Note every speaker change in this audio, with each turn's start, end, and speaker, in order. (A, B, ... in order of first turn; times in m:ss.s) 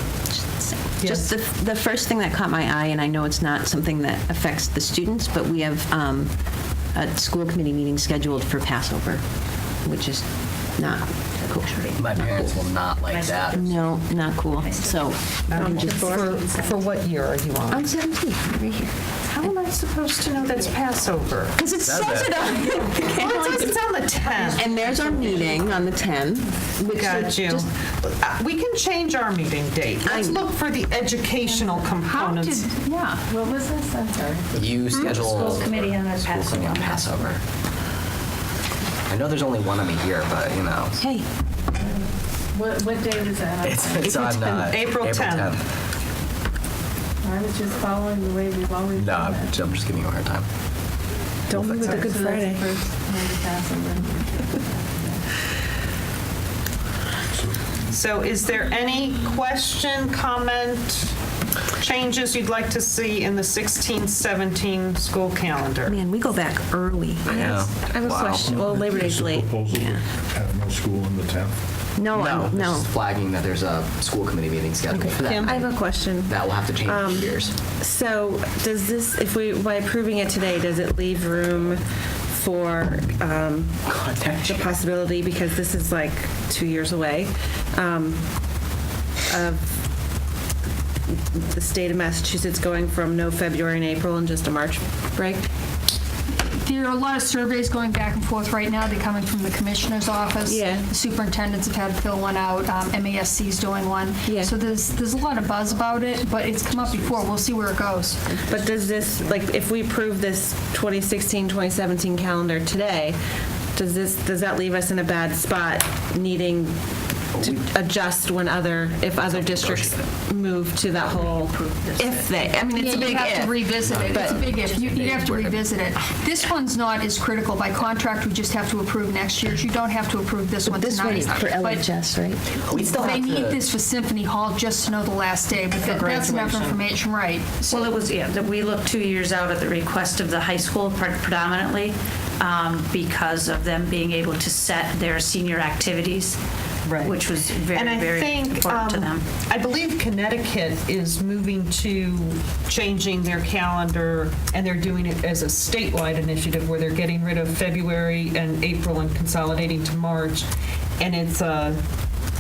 0:00.3-0:06.3 A
0:01.0-0:01.3 B
0:06.9-0:09.2 A
0:09.8-0:12.4 A
0:11.6-0:13.8 C
0:11.9-0:13.6 D
0:13.5-0:16.1 A
0:14.5-0:16.8 C
0:15.5-0:17.9 B
0:15.6-0:16.3 E
0:17.7-0:19.5 A
0:19.3-0:21.6 B
0:21.6-0:23.8 A
0:21.8-0:22.4 D
0:22.6-0:25.4 B
0:24.3-0:27.7 A
0:26.8-0:32.7 B
0:30.0-0:30.4 A
0:32.2-0:33.2 F
0:33.6-0:34.4 G
0:34.5-0:37.4 D
0:35.0-0:37.4 C
0:39.1-0:41.0 D
0:41.0-0:41.2 A
0:42.6-0:44.1 G
0:43.6-0:45.6 D
0:44.0-0:44.7 A
0:44.7-0:45.6 B
0:47.2-0:49.5 G
0:48.9-0:50.5 D
0:51.5-0:52.6 E
0:51.5-0:52.1 D
0:51.7-0:55.2 G
0:51.8-0:52.1 B
0:57.9-1:01.1 B
1:01.8-1:06.0 B
1:05.9-1:07.5 A
1:07.2-1:09.5 E
1:07.3-1:08.6 D
1:08.4-1:11.6 H
1:09.7-1:10.0 A
1:12.0-1:12.9 A
1:12.1-1:15.6 D
1:14.9-1:15.2 A
1:15.0-1:15.7 B
1:15.4-1:28.2 E
1:16.2-1:17.6 D
1:23.9-1:24.5 D
1:29.3-1:29.8 E
1:31.1-1:35.4 E
1:36.5-1:48.4 F
1:40.4-1:40.9 E
1:44.2-1:44.6 E
1:48.5-1:53.2 E
1:53.7-1:56.8 E
1:57.4-2:04.5 E
1:59.4-1:59.9 D
2:00.9-2:03.1 C
2:02.7-2:11.9 F
2:03.8-2:05.7 D
2:10.6-2:12.4 A
2:12.5-2:13.6 D
2:12.7-2:17.9 F
2:15.7-2:16.8 B
2:17.6-2:26.4 C
2:26.8-2:40.5 B
2:27.0-2:29.2 C
2:41.0-2:41.8 B